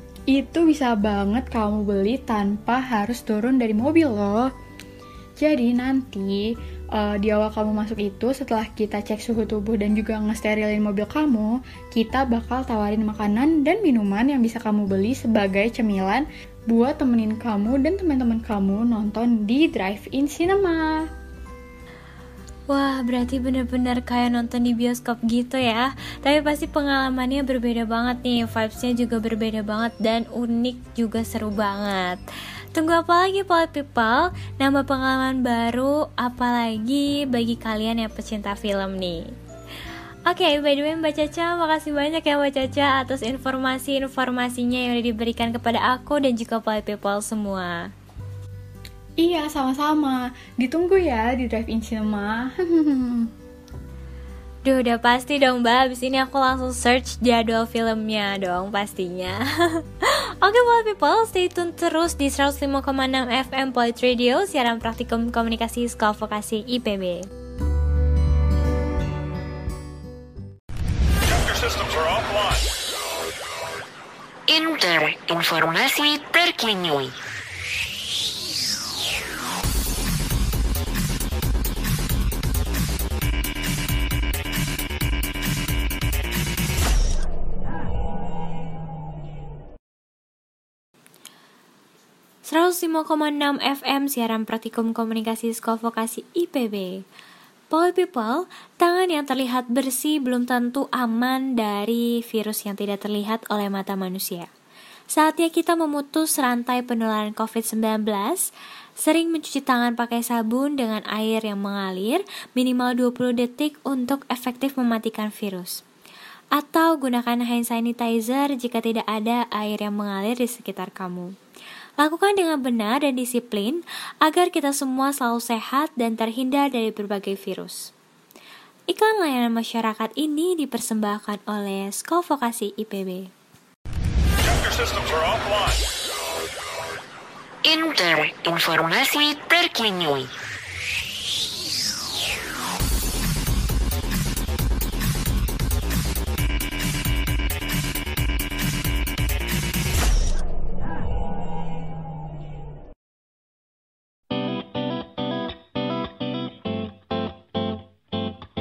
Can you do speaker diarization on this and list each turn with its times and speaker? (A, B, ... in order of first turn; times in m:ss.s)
0:00.3-0:04.5 A
0:05.4-0:21.0 A
0:22.7-0:32.2 B
0:32.7-0:39.2 B
0:40.3-0:47.9 B
0:49.2-0:53.3 A
0:54.6-1:07.3 B
1:14.5-1:17.2 C
1:32.5-1:37.0 B
1:37.7-1:44.5 B
1:45.2-1:48.5 B
1:49.0-1:55.8 B
1:56.6-2:01.3 B
2:02.0-2:07.9 B
2:08.9-2:13.3 B
2:17.6-2:20.3 C